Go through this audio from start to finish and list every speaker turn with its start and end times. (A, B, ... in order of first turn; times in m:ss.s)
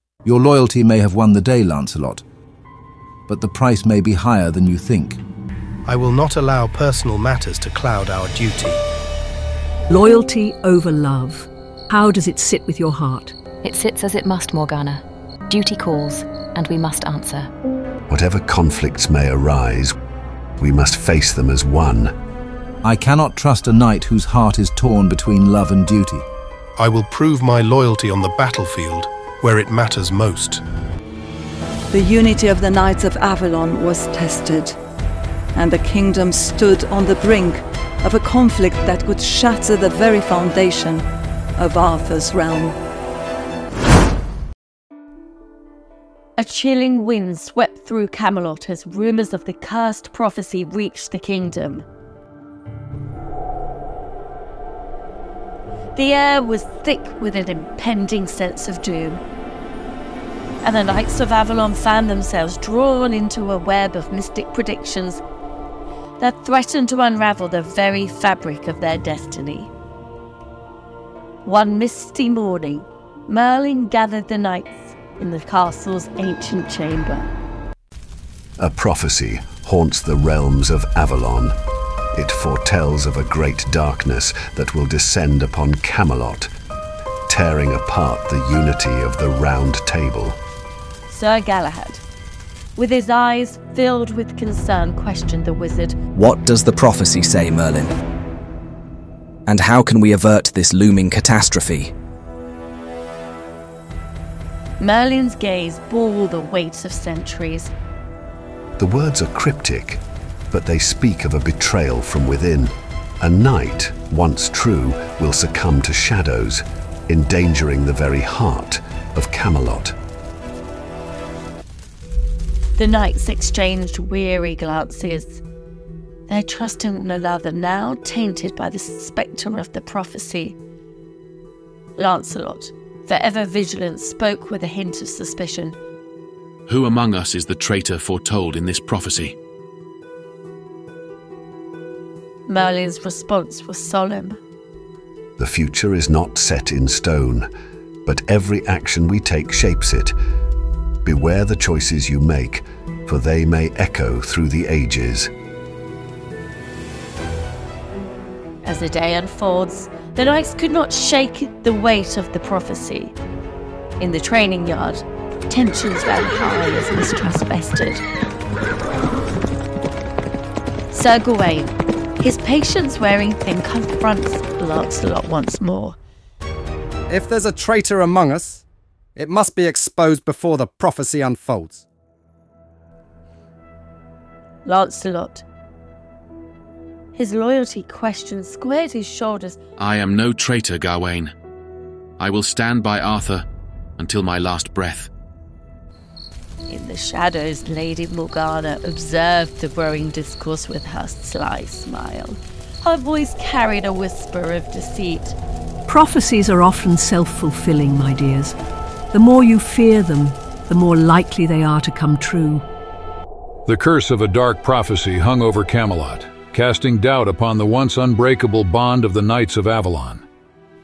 0:00.2-0:02.2 A
0:03.3-0:05.2 A
0:05.9-0:08.8 B
0:09.9-0:13.4 C
0:13.6-0:17.5 D
0:18.1-0:19.9 E
0:20.6-0:22.1 E
0:22.8-0:26.3 A
0:26.8-0:30.6 B
0:31.9-0:34.8 F
0:35.6-0:42.8 F
0:46.4-0:51.9 G
0:56.0-0:59.2 G
1:00.6-1:05.2 G
1:06.2-1:09.7 G
1:11.4-1:17.3 G
1:18.6-1:21.6 E
1:22.2-1:26.5 E
1:27.3-1:30.4 E
1:31.1-1:32.0 G
1:32.8-1:36.0 G
1:36.2-1:37.9 H
1:39.5-1:41.9 H
1:44.8-1:47.7 G
1:48.8-2:00.0 E
2:02.8-2:05.4 G
2:06.3-2:10.6 G
2:12.0-2:15.8 G
2:16.7-2:19.3 I
2:22.5-2:24.4 G
2:25.4-2:27.5 E
2:28.1-2:30.2 E
2:31.0-2:35.3 E
2:38.6-2:43.2 G
2:44.0-2:48.0 G
2:50.9-2:56.0 G
2:57.1-2:58.6 J
2:59.2-3:01.8 J
3:04.6-3:05.4 G
3:07.2-3:09.6 G
3:09.8-3:11.3 I
3:12.2-3:13.4 I
3:14.0-3:15.1 I
3:16.7-3:25.4 G
3:25.9-3:28.6 C
3:29.1-3:32.7 C
3:33.7-3:40.2 K